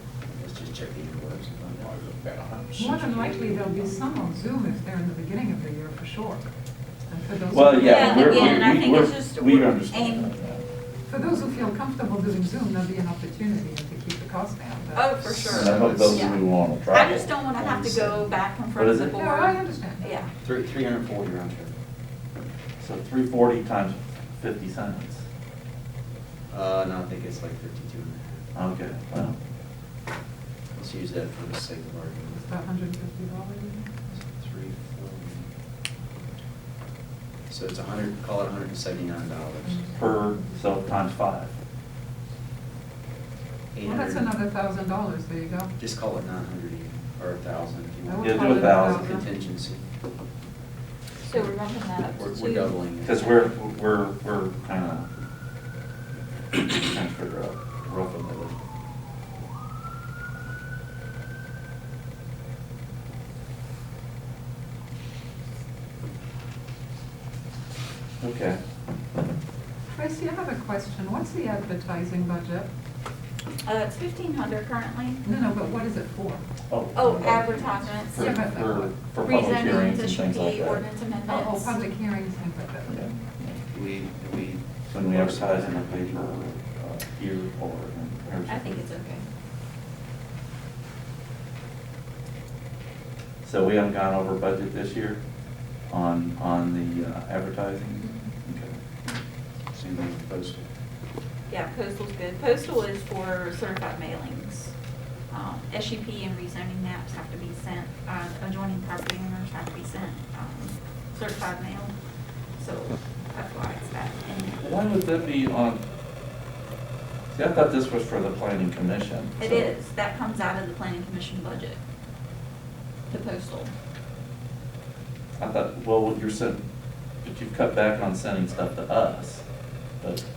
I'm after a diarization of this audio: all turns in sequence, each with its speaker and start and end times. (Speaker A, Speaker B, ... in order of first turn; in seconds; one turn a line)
Speaker A: 0.3-3.9
Speaker B: 2.8-6.4
Speaker B: 7.1-8.7
Speaker C: 7.5-10.6
Speaker D: 7.8-10.3
Speaker B: 11.1-15.2
Speaker D: 14.9-20.3
Speaker A: 15.2-16.4
Speaker C: 15.4-19.2
Speaker B: 19.1-20.2
Speaker A: 20.4-21.8
Speaker C: 22.8-25.2
Speaker A: 26.5-28.4
Speaker C: 28.6-29.4
Speaker A: 30.8-32.4
Speaker B: 32.3-34.0
Speaker A: 34.1-35.5
Speaker A: 37.5-39.9
Speaker B: 39.7-40.6
Speaker C: 40.0-41.5
Speaker A: 43.7-44.3
Speaker B: 43.8-45.7
Speaker A: 45.8-49.9
Speaker B: 48.1-49.3
Speaker C: 48.2-49.2
Speaker D: 51.2-52.8
Speaker A: 52.1-53.4
Speaker C: 53.0-55.1
Speaker C: 56.5-58.5
Speaker C: 68.2-68.6
Speaker B: 69.9-72.7
Speaker D: 73.7-75.2
Speaker B: 75.2-76.5
Speaker C: 76.7-80.8
Speaker D: 77.0-78.3
Speaker B: 78.2-79.0
Speaker D: 79.2-81.7
Speaker B: 81.3-83.0
Speaker C: 82.9-83.6
Speaker A: 83.7-86.5
Speaker C: 84.9-88.9
Speaker D: 88.5-89.3
Speaker C: 93.4-95.2
Speaker C: 95.9-98.8
Speaker D: 98.0-98.3
Speaker A: 99.7-100.7
Speaker D: 101.5-104.7
Speaker D: 105.3-111.9
Speaker D: 112.6-114.6
Speaker C: 114.6-115.8
Speaker C: 117.3-119.7
Speaker D: 119.4-121.8
Speaker D: 123.1-123.7
Speaker C: 125.4-126.6
Speaker C: 127.2-129.4